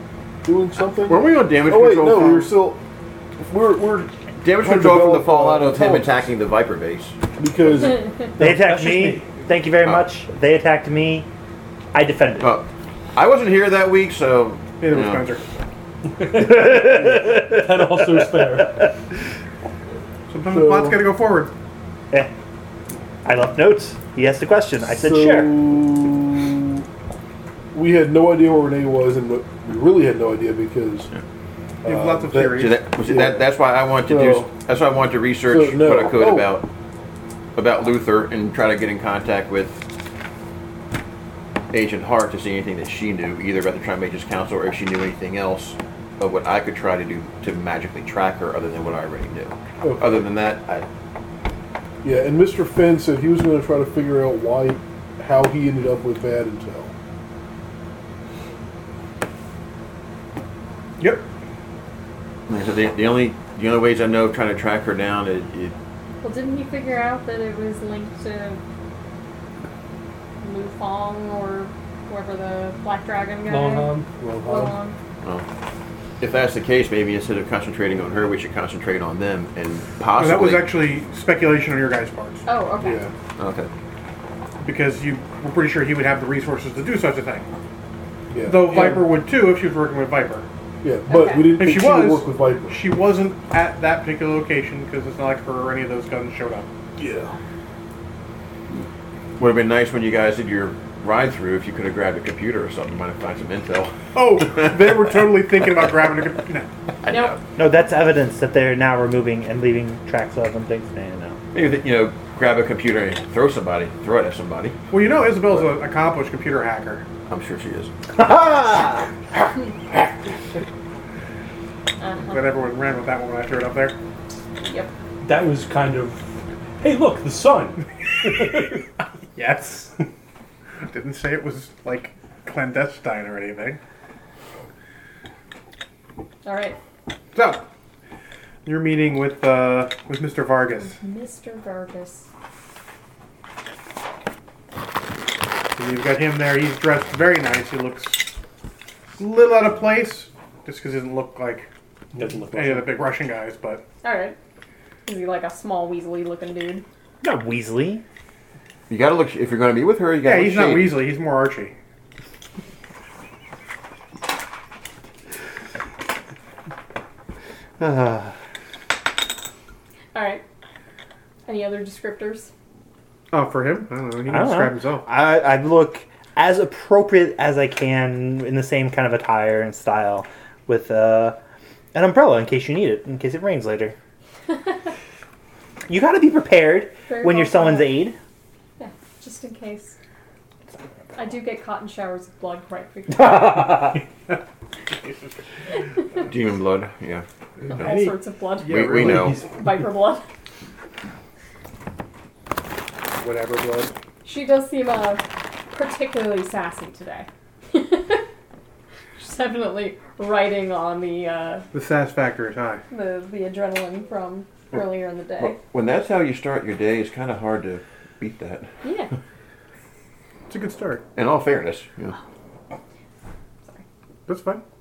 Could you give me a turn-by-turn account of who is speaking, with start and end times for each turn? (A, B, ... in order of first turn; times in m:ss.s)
0:00.4-0:02.8 A
0:01.1-0:02.5 B
0:03.4-0:06.2 A
0:04.4-0:07.2 B
0:07.4-0:08.1 A
0:08.4-0:09.4 C
0:08.4-0:11.3 D
0:11.9-0:12.5 D
0:12.4-0:15.3 B
0:14.8-0:15.5 E
0:16.2-0:18.9 C
0:16.3-0:18.9 D
0:20.3-0:21.5 E
0:20.5-0:21.1 A
0:23.2-0:25.7 D
0:24.9-0:26.9 A
0:27.7-0:31.1 A
0:31.8-0:32.8 E
0:31.8-0:33.5 A
0:32.5-0:36.7 B
0:34.0-0:34.5 A
0:35.5-0:36.5 A
0:37.6-0:39.8 B
0:41.7-0:50.9 B
0:49.8-0:50.3 A
0:52.0-0:56.9 A
1:01.0-1:01.3 E
1:02.5-1:05.8 B
1:06.2-1:08.6 F
1:10.4-1:15.0 F
1:13.5-1:14.8 C
1:16.2-1:20.7 B
1:20.1-1:22.5 E
1:22.5-1:23.0 F
1:22.8-1:23.1 A
1:23.4-1:23.7 B
1:24.6-1:27.5 E
1:28.3-1:29.1 A
1:28.4-1:30.5 E
1:30.8-1:32.8 A
1:31.1-1:31.5 F
1:31.5-1:36.7 E
1:37.0-1:37.3 A
1:39.4-1:45.0 B
1:44.1-1:46.7 E
1:47.0-1:47.4 B
1:47.1-1:47.4 F
1:47.6-1:51.4 D
1:51.5-1:54.8 B
1:54.9-1:57.1 E
1:57.3-1:57.9 B
1:58.1-1:59.1 D
2:02.0-2:02.5 F
2:02.3-2:04.0 E
2:04.6-2:04.9 F
2:05.2-2:08.8 C
2:09.4-2:09.9 E
2:10.9-2:13.8 E
2:16.4-2:16.8 F
2:17.3-2:17.6 E
2:18.6-2:21.0 E
2:20.8-2:22.3 F
2:25.8-2:28.4 E
2:29.2-2:31.7 E
2:32.1-2:33.1 C
2:32.5-2:33.8 E
2:34.0-2:34.4 F
2:35.1-2:36.8 F
2:37.2-2:38.0 D
2:38.9-2:41.1 B
2:40.2-2:41.8 E
2:47.8-2:48.3 D
2:50.1-2:50.4 F
2:51.5-2:52.5 F
2:53.3-2:55.1 E
2:54.3-3:01.4 D
3:01.9-3:04.0 D
3:05.9-3:08.2 D
3:07.1-3:08.0 F
3:08.8-3:10.0 F
3:11.2-3:13.9 F
3:13.2-3:14.0 D
3:14.9-3:15.2 E
3:16.2-3:18.0 B
3:17.6-3:19.6 E
3:17.7-3:20.2 F
3:18.7-3:19.4 B
3:23.1-3:24.0 E
3:24.2-3:28.3 F
3:29.2-3:31.7 F
3:31.7-3:32.8 E
3:32.9-3:35.6 F
3:35.4-3:38.7 B
3:38.8-3:39.1 F
3:40.5-3:41.0 E
3:41.2-3:42.2 B
3:44.3-3:44.6 E